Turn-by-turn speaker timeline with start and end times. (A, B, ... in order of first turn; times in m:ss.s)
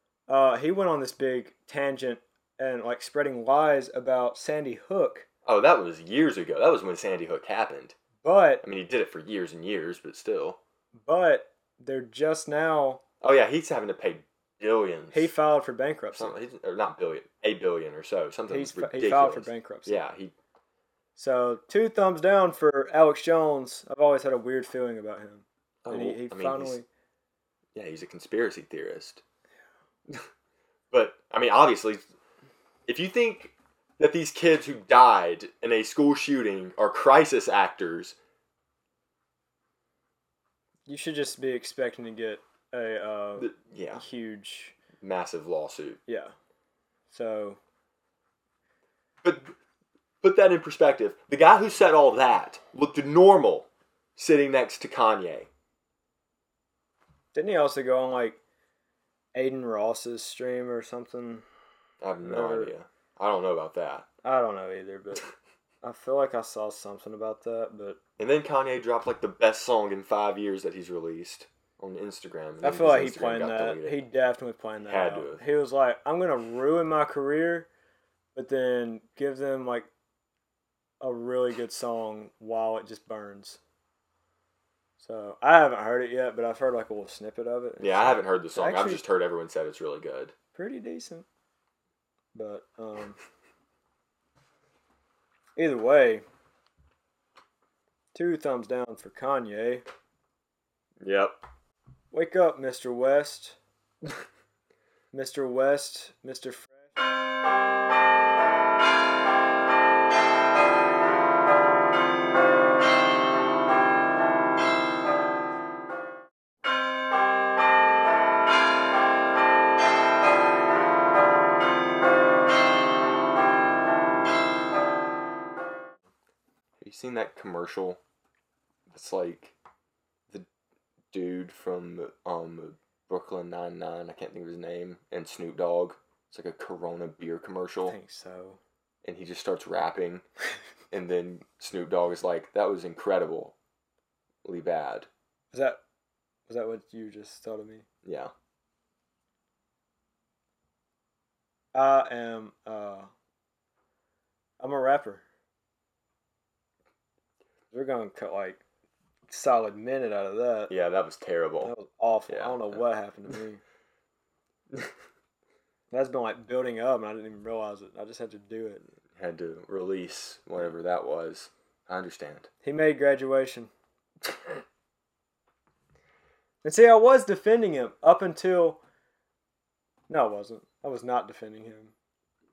0:00.3-0:05.3 A
0:05.4-0:08.0 B
0:08.2-0:08.6 A
0:08.6-0:10.6 B
0:11.0-0:13.0 A
0:13.2-0:15.3 B
0:15.1-0:16.4 A
0:16.1-0:20.3 B
0:18.5-0:20.0 A
0:21.2-0:26.9 A
0:25.8-0:26.8 B
0:27.8-0:29.2 B
0:30.9-0:32.0 B
0:32.9-0:38.2 B
0:40.9-0:44.8 A
0:43.4-0:44.0 B
0:45.0-0:46.0 B
0:46.1-0:46.3 A
0:47.1-0:47.6 A
0:49.2-0:49.5 B
0:50.2-0:55.5 B
0:57.3-0:58.4 A
0:59.4-1:01.5 A
1:02.0-1:04.1 B
1:02.2-1:02.7 A
1:04.2-1:05.3 A
1:05.8-1:08.0 A
1:08.2-1:14.0 B
1:12.6-1:17.7 A
1:14.8-1:15.4 B
1:18.4-1:19.9 A
1:21.0-1:23.6 A
1:25.0-1:29.0 A
1:27.8-1:30.3 B
1:30.5-1:31.3 A
1:32.3-1:33.2 A
1:35.6-1:36.3 A
1:38.1-1:39.8 A
1:41.0-1:41.4 B
1:42.1-1:43.6 A
1:45.1-1:46.9 A
2:06.8-2:08.0 B
2:08.9-2:09.6 B
2:11.1-2:18.0 B
2:17.9-2:18.6 A
2:19.0-2:20.2 B
2:20.9-2:23.6 B
2:24.4-2:25.1 B
2:25.5-2:25.8 A
2:26.5-2:27.8 A
2:28.0-2:28.3 B
2:31.8-2:33.1 A
2:34.6-2:35.2 A
2:37.7-2:38.6 A
2:39.3-2:40.7 A
2:40.7-2:41.7 B
2:41.6-2:43.6 A
2:42.3-2:42.8 B
2:45.9-2:48.8 A
2:49.2-2:52.5 B
2:52.6-2:53.7 A
2:56.6-2:58.8 A
3:00.1-3:01.9 A